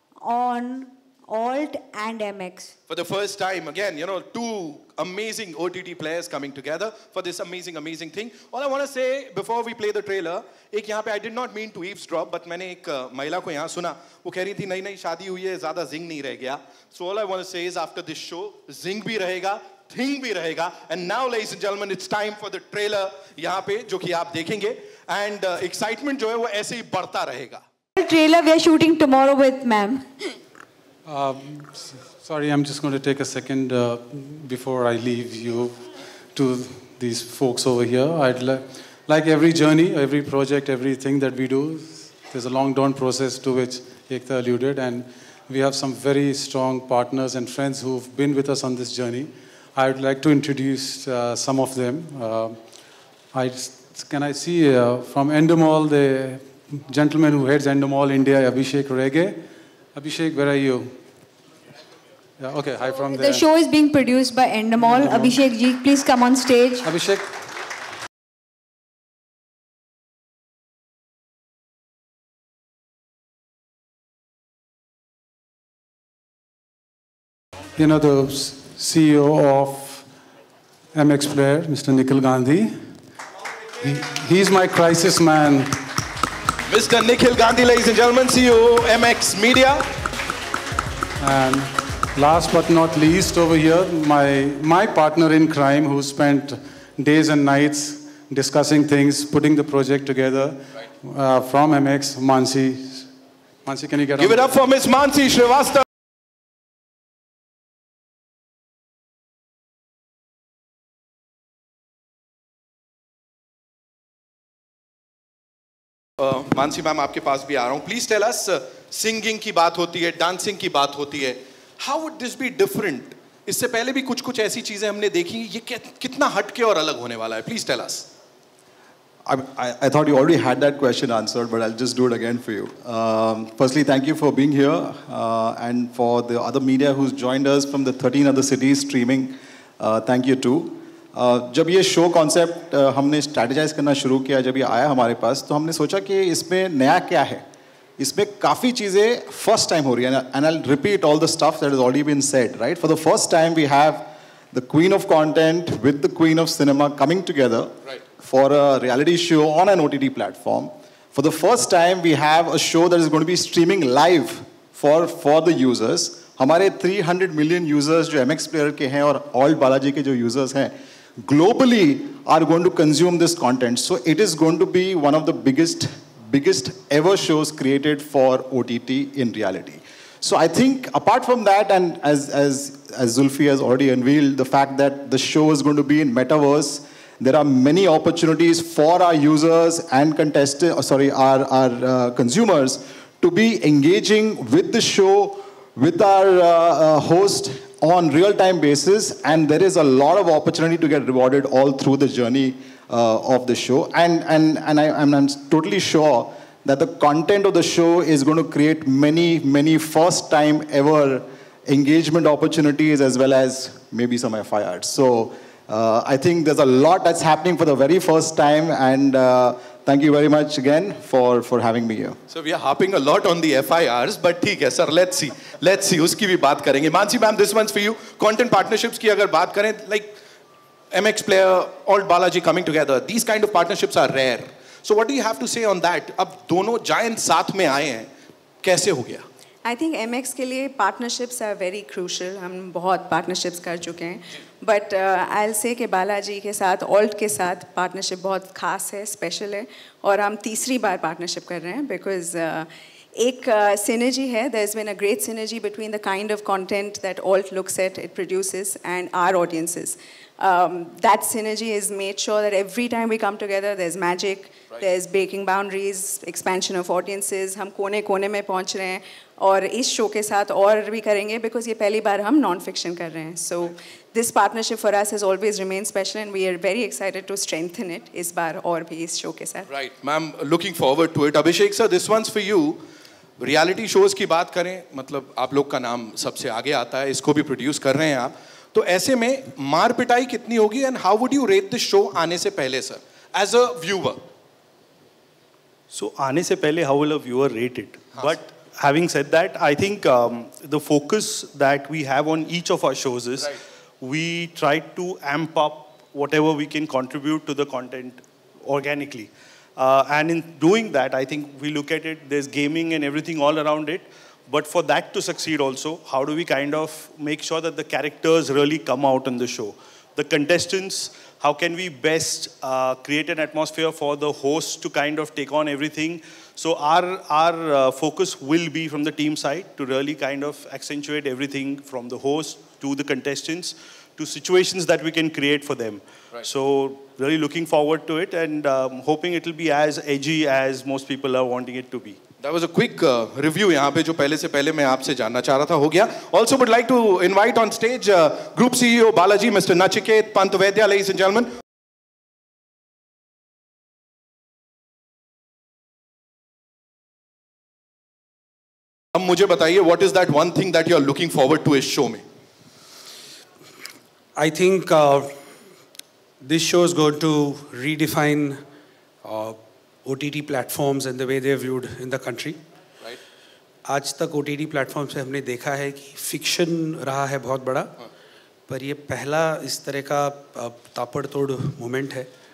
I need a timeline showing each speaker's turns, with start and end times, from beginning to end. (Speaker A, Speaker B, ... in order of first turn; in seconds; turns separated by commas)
Speaker A: 0.2-2.7, Speaker B: 2.9-27.6, Speaker A: 27.9-30.1, Speaker C: 31.1-35.8, Speaker C: 36.3-52.6, Speaker C: 53.3-61.0, Speaker C: 62.4-63.4, Speaker A: 63.1-66.9, Speaker C: 64.8-65.4, Speaker C: 66.8-67.3, Speaker C: 77.8-80.1, Speaker C: 80.9-82.8, Speaker C: 83.8-85.8, Speaker B: 86.7-89.8, Speaker C: 91.2-103.1, Speaker C: 103.6-104.5, Speaker B: 104.2-105.8, Speaker B: 116.2-128.1, Speaker D: 129.2-147.4, Speaker D: 148.0-222.2, Speaker B: 222.3-230.2, Speaker B: 230.9-238.1, Speaker B: 238.6-239.2, Speaker E: 239.6-279.7, Speaker B: 279.7-282.8, Speaker B: 283.4-294.2, Speaker F: 295.9-342.2, Speaker B: 342.4-351.5, Speaker B: 359.1-362.2, Speaker G: 364.4-365.4, Speaker G: 366.4-368.6, Speaker G: 369.2-372.6, Speaker G: 373.9-377.9, Speaker G: 378.7-382.3